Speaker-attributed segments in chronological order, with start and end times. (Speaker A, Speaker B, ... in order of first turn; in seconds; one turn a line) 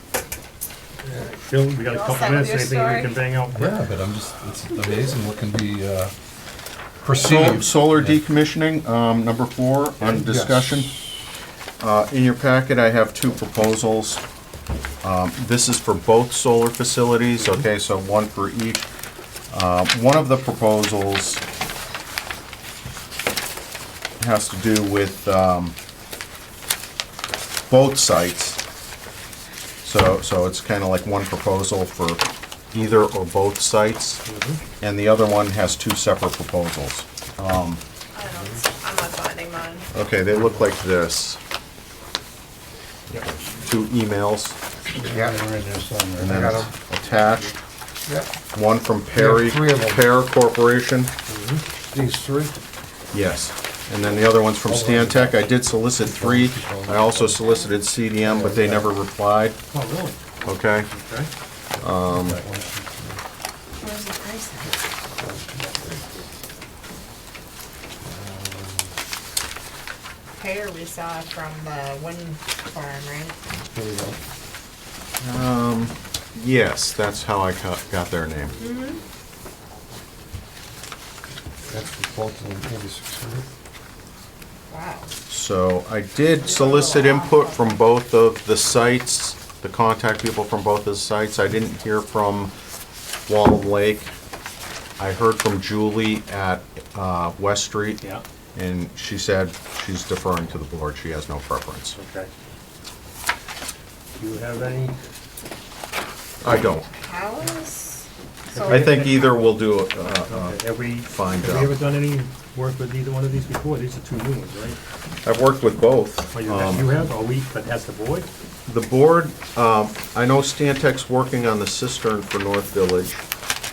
Speaker A: 1.1-3.8
Speaker B: 1.9-3.2
Speaker C: 3.5-6.1
Speaker C: 7.0-8.2
Speaker D: 7.2-10.9
Speaker A: 10.0-10.4
Speaker E: 10.3-10.7
Speaker D: 11.8-14.2
Speaker D: 15.0-18.9
Speaker A: 17.4-17.6
Speaker D: 19.5-21.4
Speaker D: 24.2-25.8
Speaker D: 27.7-28.6
Speaker D: 29.8-34.2
Speaker A: 34.2-34.6
Speaker D: 34.8-37.8
Speaker B: 38.1-39.9
Speaker D: 39.9-41.4
Speaker D: 43.1-44.6
Speaker E: 45.0-46.7
Speaker D: 46.2-47.5
Speaker D: 48.5-51.1
Speaker E: 49.1-50.0
Speaker A: 51.3-51.6
Speaker E: 51.9-52.6
Speaker D: 53.1-59.6
Speaker E: 54.7-57.5
Speaker E: 58.2-58.9
Speaker A: 59.7-60.2
Speaker D: 60.5-60.9
Speaker A: 60.9-61.3
Speaker D: 61.8-62.4
Speaker E: 62.0-63.2
Speaker A: 62.4-62.7
Speaker B: 63.8-64.8
Speaker E: 65.2-66.1
Speaker E: 68.0-68.9
Speaker B: 70.4-73.4
Speaker E: 73.5-74.2
Speaker D: 75.2-78.6
Speaker B: 78.6-79.0
Speaker E: 81.7-83.5
Speaker B: 84.7-85.1
Speaker D: 85.3-92.5
Speaker B: 86.4-87.8
Speaker D: 93.3-94.1
Speaker D: 95.0-98.0
Speaker D: 98.5-102.0
Speaker A: 102.0-102.3
Speaker A: 104.2-105.0
Speaker D: 106.4-106.9
Speaker B: 106.8-109.2
Speaker A: 108.5-109.6
Speaker D: 108.7-111.8
Speaker A: 110.3-114.8
Speaker D: 115.2-116.9
Speaker A: 116.3-118.3
Speaker D: 118.7-123.2